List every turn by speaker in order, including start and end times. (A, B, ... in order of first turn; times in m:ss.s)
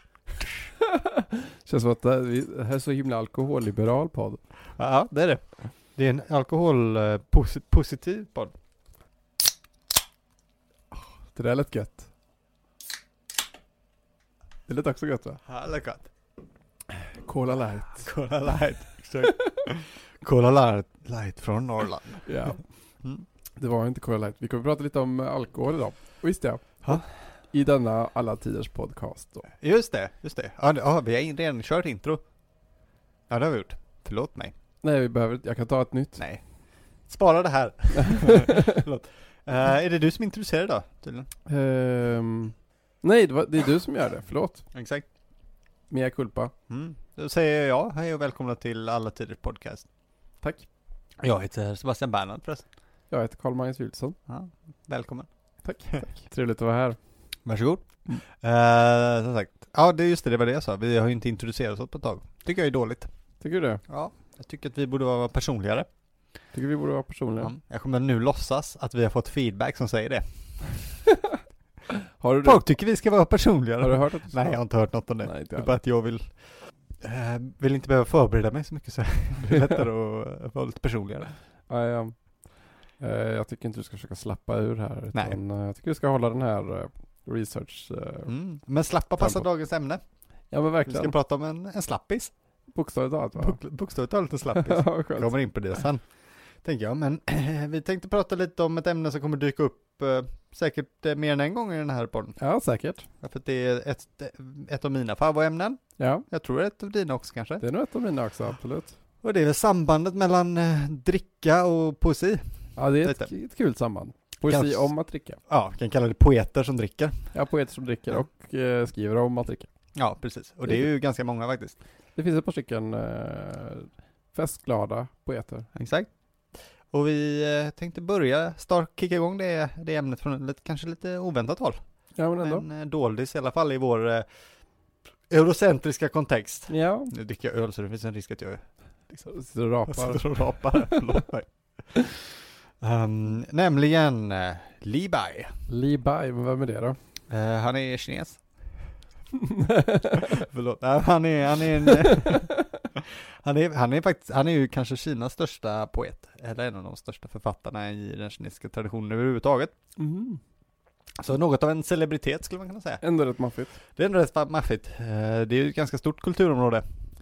0:00.8-0:04.4 A
0:04.8-0:05.4 B
0:06.0-0:08.6 B
0:11.3-0:12.1 A
0:14.7-0:15.4 A
0:15.5-0:16.1 B
0:17.0-0:18.1 A
0:18.0-0:23.2 B
0:22.2-0:22.6 A
0:23.6-0:29.5 A
0:29.5-0:32.2 B
0:33.3-0:34.6 B
0:34.8-0:36.2 A
0:37.1-0:41.3 B
0:38.0-0:38.8 A
0:41.5-0:44.6 A
0:44.7-0:45.1 B
0:45.9-0:46.5 A
0:46.7-0:49.9 B
0:50.4-0:50.7 A
0:51.2-0:52.7 B
0:53.1-0:54.2 A
0:54.3-0:55.3 B
0:55.6-0:57.0 A
0:57.4-1:03.1 B
1:03.4-1:03.8 A
1:03.9-1:05.9 B
1:06.5-1:07.5 A
1:07.4-1:10.2 B
1:12.2-1:12.7 A
1:12.4-1:21.3 B
1:13.8-1:14.6 A
1:15.2-1:15.7 A
1:21.7-1:28.3 A
1:25.1-1:25.4 B
1:28.3-1:30.0 B
1:29.2-1:29.5 A
1:30.5-1:31.1 A
1:30.8-1:32.3 B
1:32.7-1:33.6 A
1:33.4-1:36.1 B
1:34.6-1:35.4 A
1:36.6-1:42.4 B
1:42.4-1:43.1 A
1:43.2-1:47.6 B
1:46.0-1:46.3 A
1:47.6-1:49.0 A
1:49.2-1:53.3 B
1:52.8-1:55.4 A
1:54.5-1:54.9 B
1:55.5-1:57.3 B
1:57.3-1:59.7 A
2:00.0-2:01.8 B
2:02.2-2:05.7 A
2:05.8-2:06.1 B
2:06.9-2:11.8 B
2:12.2-2:12.6 A
2:12.4-2:14.3 B
2:15.3-2:19.3 B
2:16.7-2:17.1 A
2:19.3-2:21.0 A
2:19.9-2:22.2 B
2:22.8-2:25.6 B
2:25.7-2:27.0 A
2:27.3-2:28.4 B
2:29.4-2:30.3 A
2:30.2-2:39.7 B
2:40.0-2:40.4 A
2:41.2-2:43.0 B
2:43.0-2:43.8 A
2:44.0-2:46.8 B